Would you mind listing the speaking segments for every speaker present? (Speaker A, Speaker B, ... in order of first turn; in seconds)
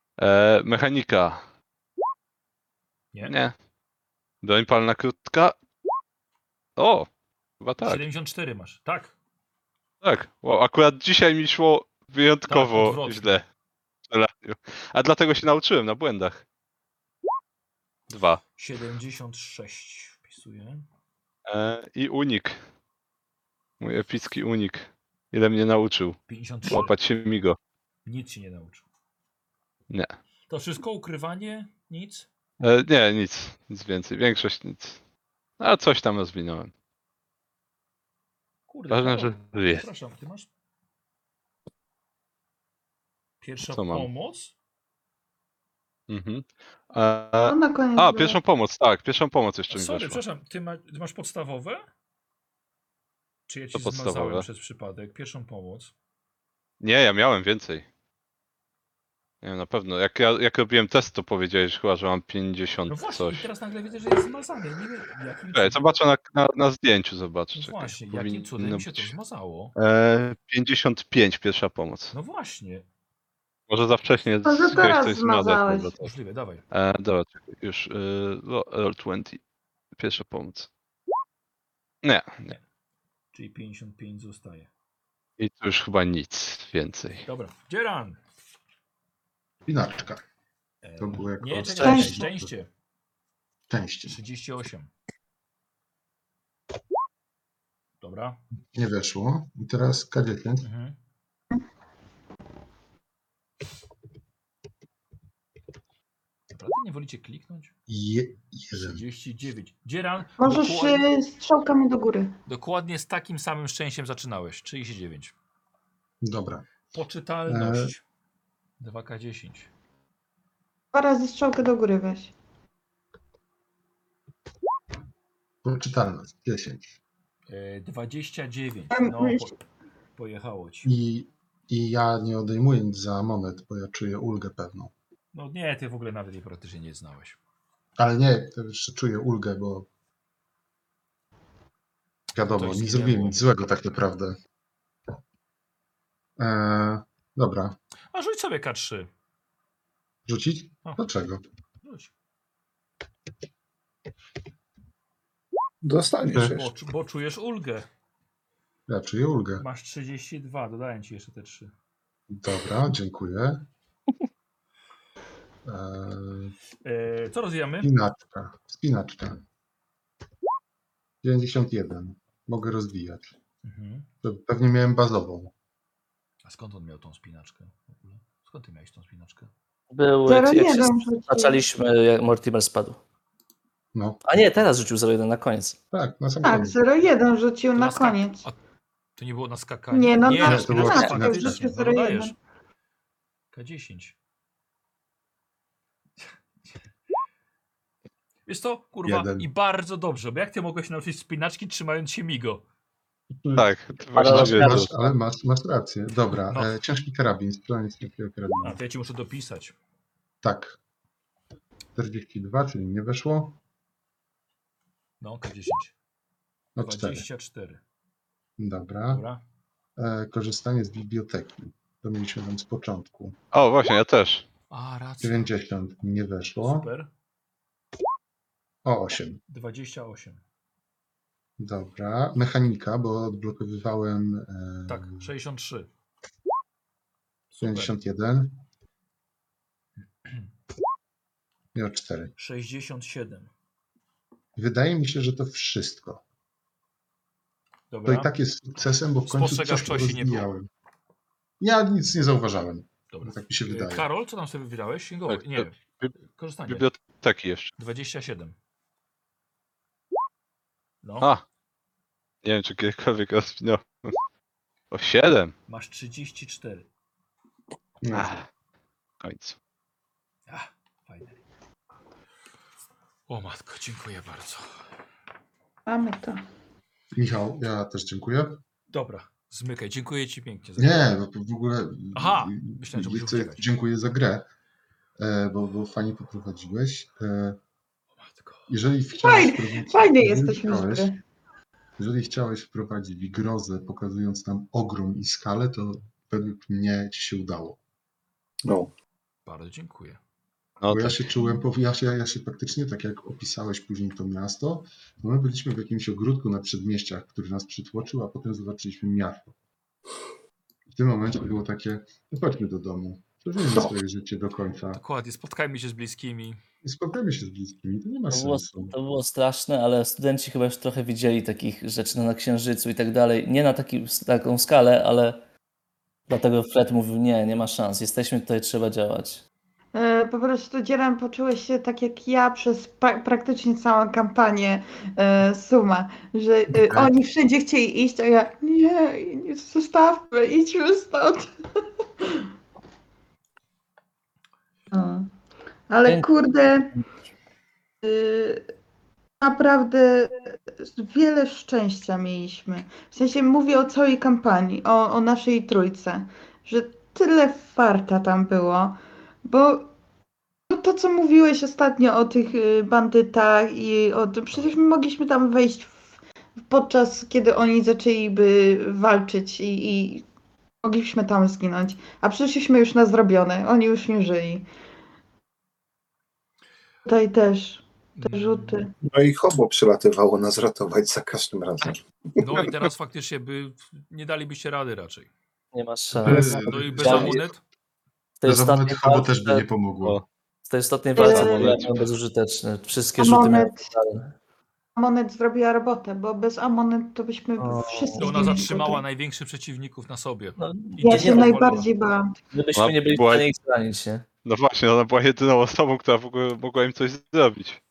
Speaker A: 0.2-1.4, 3.2-3.5, 4.4-5.5, 6.8-7.1, 7.6-8.0, 10.0-13.4, 14.1-16.4, 18.1-18.4, 21.4-22.6, 23.8-27.6, 29.9-30.1, 32.6-35.0, 35.6-36.7, 38.9-39.9, 43.8-44.1, 46.1-50.2, 53.7-54.5, 56.8-57.9, 59.4-63.5, 65.5-69.1, 69.8-72.1, 73.7-76.1, 76.7-79.4, 80.0-80.7, 82.0-82.5, 85.4-87.3, 203.6-204.9, 223.5-224.4, 255.3-256.1, 256.7-257.7, 262.4-264.2, 264.9-265.5, 268.1-268.4, 269.2-269.6, 300.8-301.2, 391.1-392.1, 402.7-403.4, 404.4-407.8
Speaker B: 7.8-9.1, 12.5-13.4, 18.6-20.8, 26.3-26.9, 28.1-28.9, 30.5-32.3, 38.7-40.5, 43.4-44.5, 49.7-51.9, 53.5-55.9, 62.9-66.0, 67.5-69.7, 72.1-72.8, 76.0-76.6, 83.3-84.7, 87.2-88.2, 90.8-92.7, 94.0-94.9, 98.0-98.4, 100.6-101.0, 106.5-107.7, 108.7-111.0, 112.5-115.3, 116.9-118.0, 118.8-119.7, 127.5-129.6, 130.2-130.9, 135.3-137.4, 142.5-143.4, 148.1-149.1, 151.8-152.1, 156.3-157.9, 159.6-161.7, 166.8-167.9, 173.6-174.1, 176.4-179.5, 187.8-188.6, 189.2-192.3, 193.5-194.1, 198.4-202.6, 208.6-209.7, 215.2-215.9, 216.8-217.8, 219.1-219.4, 224.7-225.5, 226.6-227.1, 229.5-230.4, 234.9-235.9, 237.5-237.9, 242.4-243.5, 247.9-248.3, 249.2-250.4, 253.1-255.8, 256.3-256.9, 257.8-258.5, 261.0-261.3, 265.7-266.9, 270.5-271.4, 273.3-274.7, 278.9-281.1, 282.1-283.7, 288.2-288.7, 299.4-300.2, 314.9-316.6, 378.1-378.9, 382.4-385.3, 386.2-387.6, 398.2-401.9
Speaker C: 47.4-48.4, 74.4-75.9, 91.8-92.2, 110.4-112.3, 120.9-122.3, 128.9-129.5, 180.3-181.6, 186.4-188.4, 189.9-192.3, 275.9-276.4, 289.2-291.2, 329.9-341.5, 342.2-342.5, 344.9-345.3, 345.9-346.9, 348.0-348.6, 349.4-359.9, 360.7-366.0, 366.7-370.2, 370.8-374.7, 377.1-378.9, 391.1-391.9, 393.2-393.9, 394.9-399.0, 401.0-402.4
Speaker D: 89.7-90.2, 91.0-92.5, 93.7-94.2, 98.7-100.6, 107.9-109.0, 116.2-116.7, 117.5-117.9, 125.6-126.9, 130.8-134.9, 138.0-139.9, 142.3-144.4, 146.4-147.7, 150.2-151.4, 158.9-159.6, 162.3-163.6, 165.6-166.5, 167.8-169.4, 171.2-173.3, 174.2-175.5, 183.9-184.2, 185.9-186.8, 190.3-191.7, 199.1-199.5, 203.4-208.8, 210.4-210.8, 211.9-213.6, 216.8-217.2, 218.6-219.2, 220.0-223.3, 225.2-226.9, 228.8-229.4, 231.6-235.3, 237.6-238.6, 241.7-242.3, 244.6-246.2, 248.1-250.7, 251.6-254.0, 268.0-268.3, 277.1-278.6, 280.8-284.5, 285.2-287.6, 288.7-291.1, 292.0-297.8, 300.9-309.5, 310.9-315.0, 316.8-318.9, 336.7-337.1, 386.2-387.4, 388.4-390.2
Speaker E: 155.8-156.7, 298.6-298.9, 379.0-382.6
Speaker F: 179.9-183.0, 184.2-185.8, 204.1-204.9, 318.3-325.4, 326.3-329.4, 385.7-387.4, 388.4-389.6, 390.6-394.3, 397.6-398.6, 400.6-401.8, 402.5-404.2